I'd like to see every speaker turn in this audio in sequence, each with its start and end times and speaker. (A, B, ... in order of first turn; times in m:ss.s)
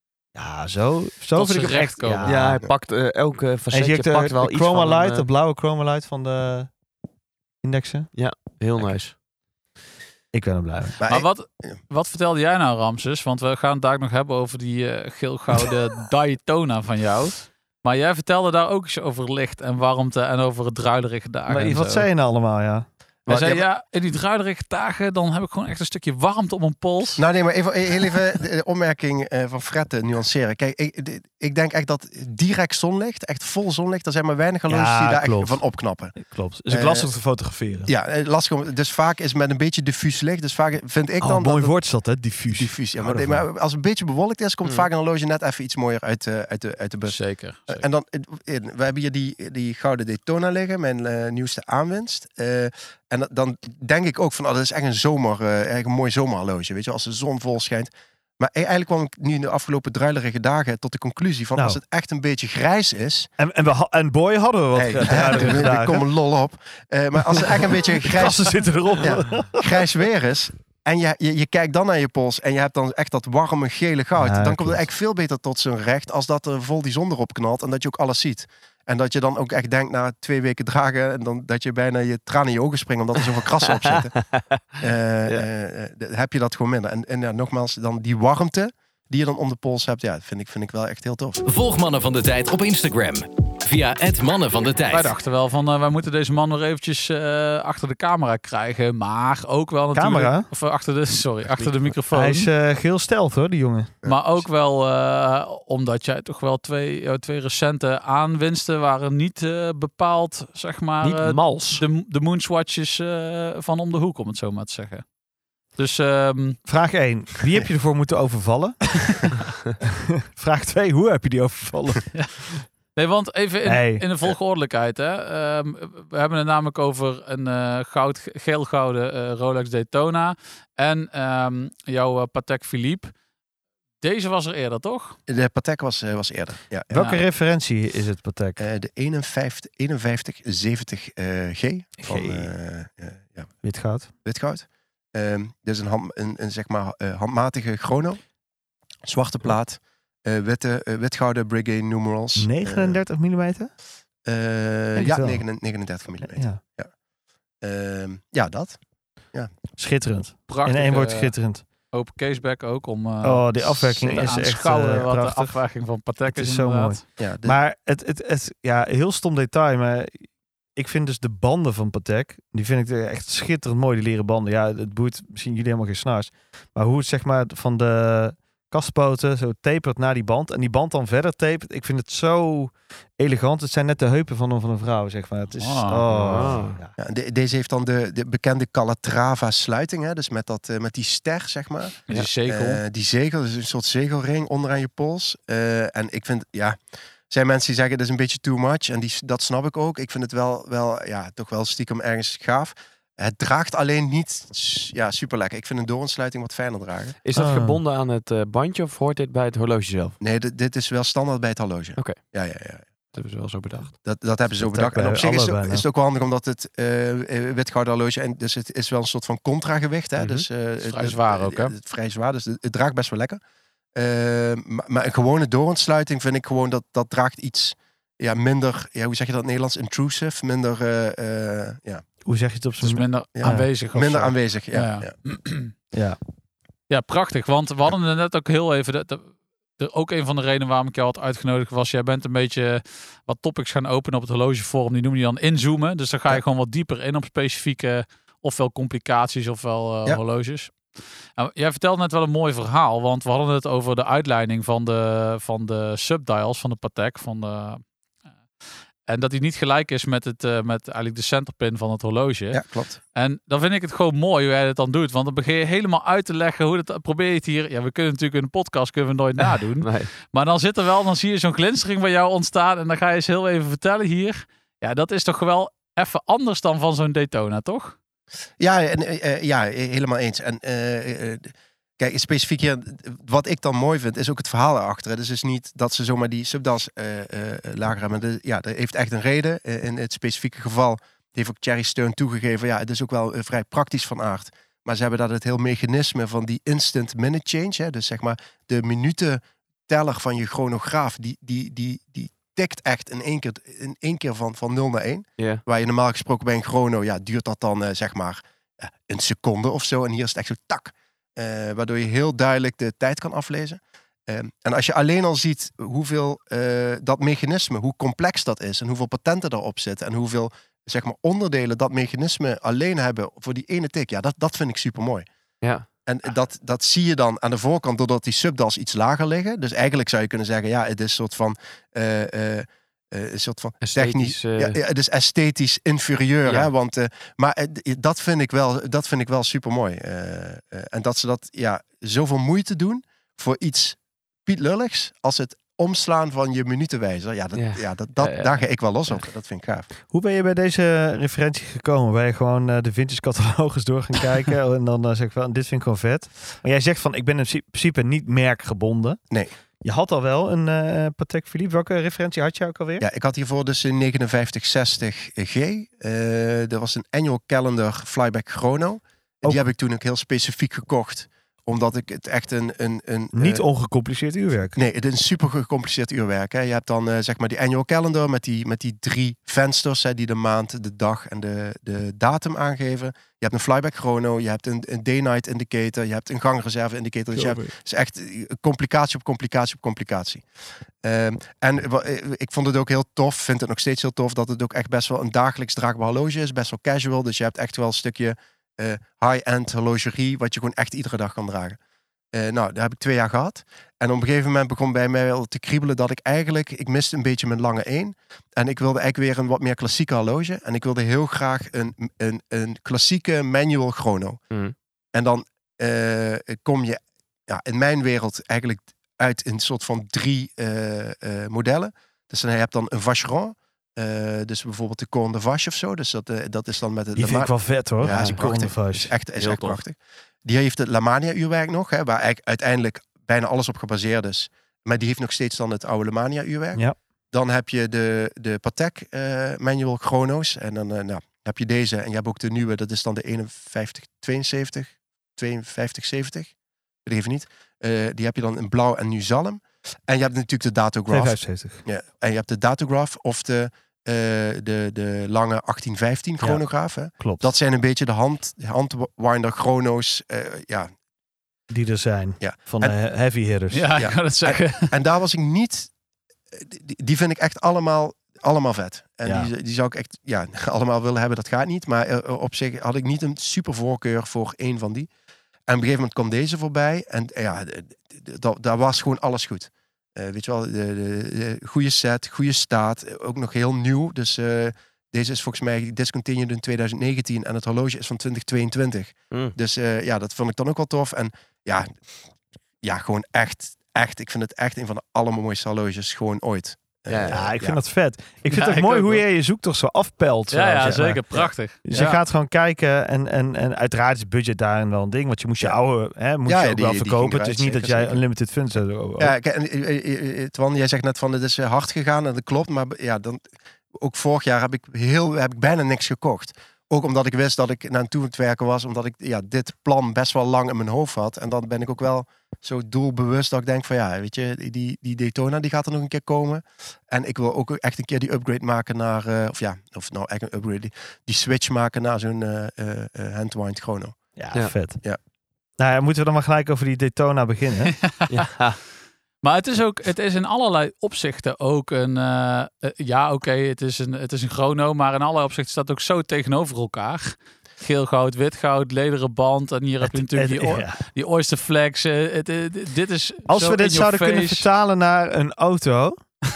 0:00.4-0:02.6 A
0:01.4-0:02.3 B
0:02.2-0:05.3 C
0:03.7-0:06.7 A
0:07.6-0:08.1 A
0:08.1-0:09.1 C
0:10.3-0:11.0 A
0:11.0-0:11.8 D
0:11.1-0:22.1 B
0:21.5-0:22.9 A
0:23.3-0:23.6 D
0:23.3-0:27.2 B
0:27.2-0:36.2 D
0:34.7-0:37.9 A
0:36.7-0:37.1 D
0:37.9-0:41.7 D
0:41.2-0:43.5 A
0:42.5-0:47.2 D
0:47.1-0:47.9 B
0:47.7-1:03.3 D
1:01.6-1:01.8 A
1:03.4-1:06.0 A
1:04.8-1:24.1 D
1:07.2-1:09.8 A
1:14.2-1:14.8 A
1:24.1-1:24.6 C
1:24.8-1:31.4 D
1:31.4-1:35.1 E
1:34.9-1:42.5 B
1:39.9-1:40.5 A
1:42.1-1:43.9 A
1:44.0-1:55.1 B
1:51.0-1:51.8 C
1:55.8-1:56.6 B
1:56.6-2:02.6 A
2:02.9-2:13.1 B
2:03.6-2:04.1 A
2:14.0-2:15.2 B
2:15.3-2:16.9 D
2:16.9-2:18.6 A
2:16.9-2:17.2 B
2:18.6-2:23.5 D
2:22.0-2:22.5 A
2:23.6-2:24.1 A
2:24.2-2:28.2 D
2:29.0-2:33.0 D
2:32.4-2:33.7 A
2:34.3-2:36.9 D
2:35.0-2:35.4 A
2:36.2-2:36.6 A
2:37.6-2:38.8 D
2:39.8-2:41.6 A
2:40.5-2:41.3 B
2:41.9-2:47.0 B
2:43.2-2:45.6 A
2:46.3-3:06.9 A
2:47.2-2:47.6 D
3:05.6-3:06.1 B
3:06.1-3:06.8 C
3:07.0-3:16.8 D
3:12.1-3:12.8 B
3:17.3-3:27.2 D
3:27.2-3:30.2 C
3:27.4-3:27.8 A
3:30.2-3:32.8 D
3:33.1-3:33.9 C
3:34.0-3:43.4 D
3:34.6-3:35.9 A
3:40.2-3:40.5 C
3:40.8-3:41.7 B
3:44.0-3:52.0 D
3:52.3-3:53.7 A
3:52.8-3:55.7 B
3:53.4-3:55.1 D
3:55.9-3:56.2 A
3:56.9-4:10.7 B
4:11.4-4:17.8 B
4:19.1-4:22.6 B
4:22.5-4:23.0 D
4:23.1-4:38.0 B
4:29.8-4:30.1 C
4:38.6-5:25.3 D
5:25.6-5:25.9 C
5:26.1-5:49.9 D
5:33.8-5:34.8 C
5:36.4-5:36.7 C
5:47.6-5:49.2 C
5:50.1-5:59.2 A
5:59.8-6:03.0 A
6:03.0-6:13.6 D
6:13.3-6:14.8 A
6:14.8-6:30.4 D
6:31.0-6:41.8 D
6:42.3-6:54.4 D
6:55.1-7:26.5 D
7:07.2-7:09.1 A
7:08.0-7:08.5 C
7:09.4-7:09.8 C
7:27.1-7:40.9 D
7:31.1-7:31.8 A
7:36.4-7:37.5 A
7:41.7-7:43.9 A
7:42.4-7:43.0 D
7:43.7-7:44.9 B
7:44.0-7:45.9 D
7:46.5-7:55.1 D
7:49.2-7:49.5 A
7:55.7-8:11.9 D
8:12.8-8:17.8 D
8:17.1-8:17.4 C
8:17.3-8:29.4 A
8:18.5-8:19.2 B
8:20.5-8:22.2 B
8:20.8-8:21.5 D
8:26.5-8:28.2 D
8:29.2-8:33.4 D
8:34.0-8:54.2 D
8:54.4-8:55.0 A
8:55.8-8:58.0 A
8:57.9-8:58.3 B
8:58.3-8:58.8 C
8:59.4-9:14.6 B
9:10.0-9:11.0 A
9:13.5-9:16.2 A